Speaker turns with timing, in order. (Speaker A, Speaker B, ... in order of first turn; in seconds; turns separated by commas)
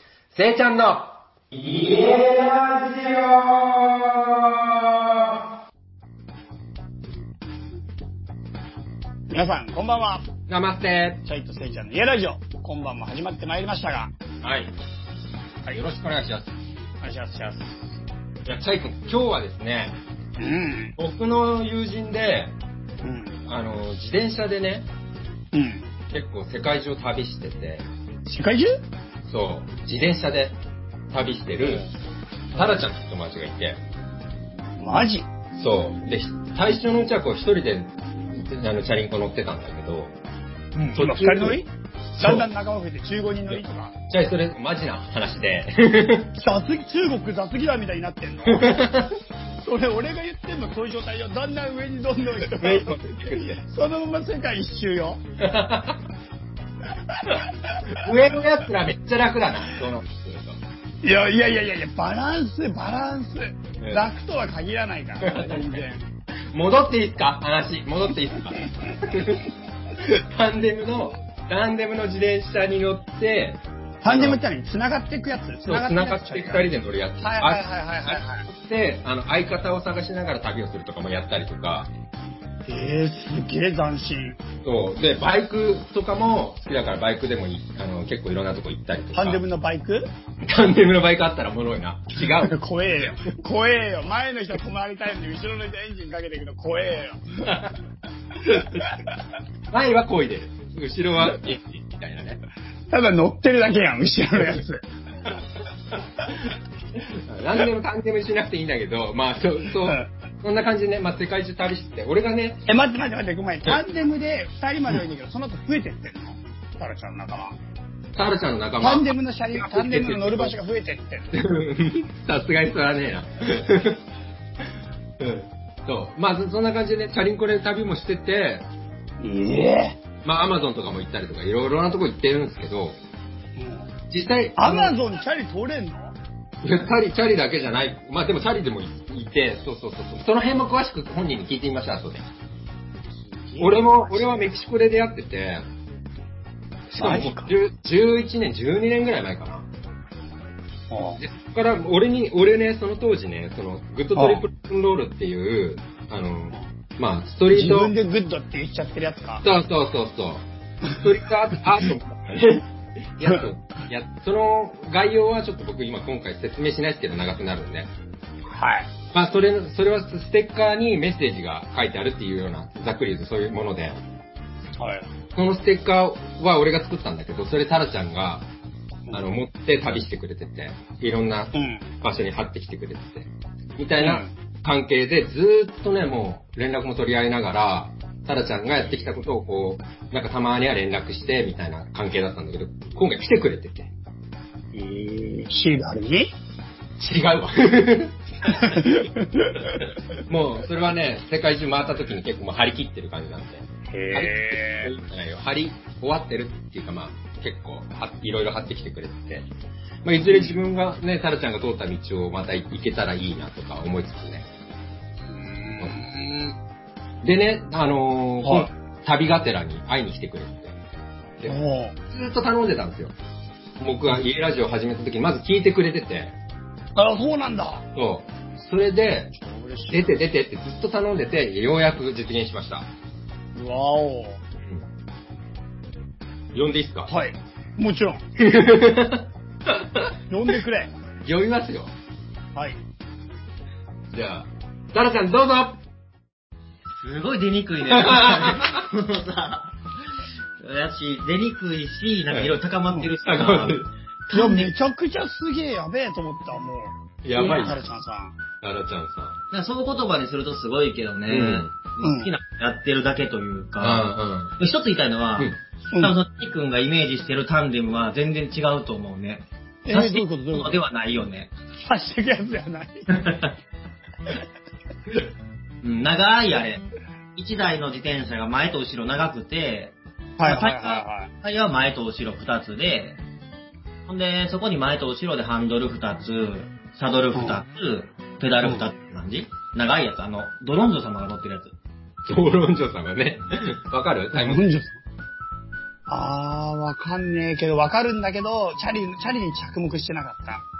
Speaker A: 0.3-5.0, Speaker B: 9.3-10.3, Speaker A: 10.5-11.2, Speaker B: 11.2-14.1, Speaker A: 14.4-14.7, Speaker A: 15.7-16.5, Speaker B: 17.0-17.9, Speaker A: 18.4-19.9, Speaker B: 20.4-20.9, Speaker A: 21.0-22.5, Speaker B: 23.0-23.4, Speaker A: 23.5-24.9, Speaker B: 25.5-25.9, Speaker A: 26.1-27.8, Speaker B: 28.2-28.7, Speaker A: 29.2-30.5, Speaker A: 31.1-31.9, Speaker A: 32.5-33.8, Speaker B: 32.5-32.8, Speaker B: 34.8-35.3, Speaker A: 35.5-40.1, Speaker B: 40.8-41.7, Speaker A: 40.9-41.6, Speaker A: 42.2-42.5, Speaker B: 42.2-44.0, Speaker A: 44.1-46.3, Speaker B: 46.3-49.0, Speaker A: 48.5-49.2, Speaker B: 49.6-55.2, Speaker A: 52.6-53.6, Speaker A: 55.4-56.0, Speaker B: 57.1-57.8, Speaker A: 57.3-60.6, Speaker B: 61.0-66.1, Speaker A: 65.2-65.8, Speaker A: 66.5-74.4, Speaker B: 74.0-76.7, Speaker A: 75.6-81.9, Speaker B: 77.2-78.5, Speaker B: 82.7-84.4, Speaker A: 84.6-89.4, Speaker B: 89.1-90.1, Speaker A: 90.4-92.5, Speaker B: 92.2-97.6, Speaker A: 98.5-98.9, Speaker A: 99.7-102.4, Speaker B: 102.9-104.8, Speaker A: 107.0-112.6, Speaker B: 109.8-110.1, Speaker B: 112.7-117.6, Speaker A: 118.1-120.5, Speaker B: 118.8-121.4, Speaker A: 121.3-124.0, Speaker A: 125.2-128.7, Speaker B: 129.2-130.0, Speaker A: 130.2-133.0, Speaker B: 133.6-133.9, Speaker A: 134.1-134.9, Speaker B: 134.6-136.2, Speaker A: 136.6-142.2, Speaker B: 143.2-144.5, Speaker A: 143.6-145.6, Speaker A: 146.9-149.7, Speaker B: 146.9-147.5, Speaker B: 150.9-151.2, Speaker A: 151.2-157.9, Speaker B: 154.1-154.4, Speaker B: 157.5-159.4, Speaker A: 159.4-167.9, Speaker B: 168.5-168.9, Speaker A: 169.1-174.0, Speaker B: 174.8-175.1, Speaker A: 175.3-178.4, Speaker A: 179.1-193.9, Speaker B: 181.5-181.8, Speaker B: 184.0-184.3, Speaker B: 194.7-196.3, Speaker A: 197.0-199.0, Speaker B: 198.4-199.7, Speaker A: 199.7-209.5, Speaker B: 203.9-204.9, Speaker A: 210.0-214.5, Speaker B: 210.2-210.6, Speaker B: 215.3-216.1, Speaker A: 215.8-216.5, Speaker A: 217.2-220.8, Speaker B: 218.4-218.7, Speaker A: 221.4-223.1, Speaker B: 221.4-221.9, Speaker A: 223.8-226.3, Speaker B: 226.9-227.9, Speaker A: 227.9-229.3, Speaker B: 229.3-230.2, Speaker A: 229.9-232.9, Speaker B: 233.5-234.4, Speaker A: 236.5-237.1, Speaker B: 237.1-238.3, Speaker A: 238.4-240.1, Speaker B: 240.3-240.9, Speaker A: 241.2-241.9, Speaker A: 244.1-245.8, Speaker C: 247.0-249.7, Speaker A: 247.9-248.8, Speaker C: 250.6-254.7, Speaker A: 253.2-253.9, Speaker B: 254.3-258.4, Speaker A: 257.2-257.8, Speaker A: 258.6-259.4, Speaker C: 259.5-271.5, Speaker A: 261.3-261.7, Speaker B: 262.0-262.3, Speaker A: 263.8-264.5, Speaker B: 269.8-270.8, Speaker B: 271.8-273.2, Speaker C: 273.1-273.5, Speaker C: 275.8-276.8, Speaker C: 277.4-283.2, Speaker B: 280.4-281.3, Speaker C: 284.1-291.7, Speaker B: 287.3-287.6, Speaker A: 292.2-294.7, Speaker B: 294.3-295.0, Speaker B: 296.1-300.6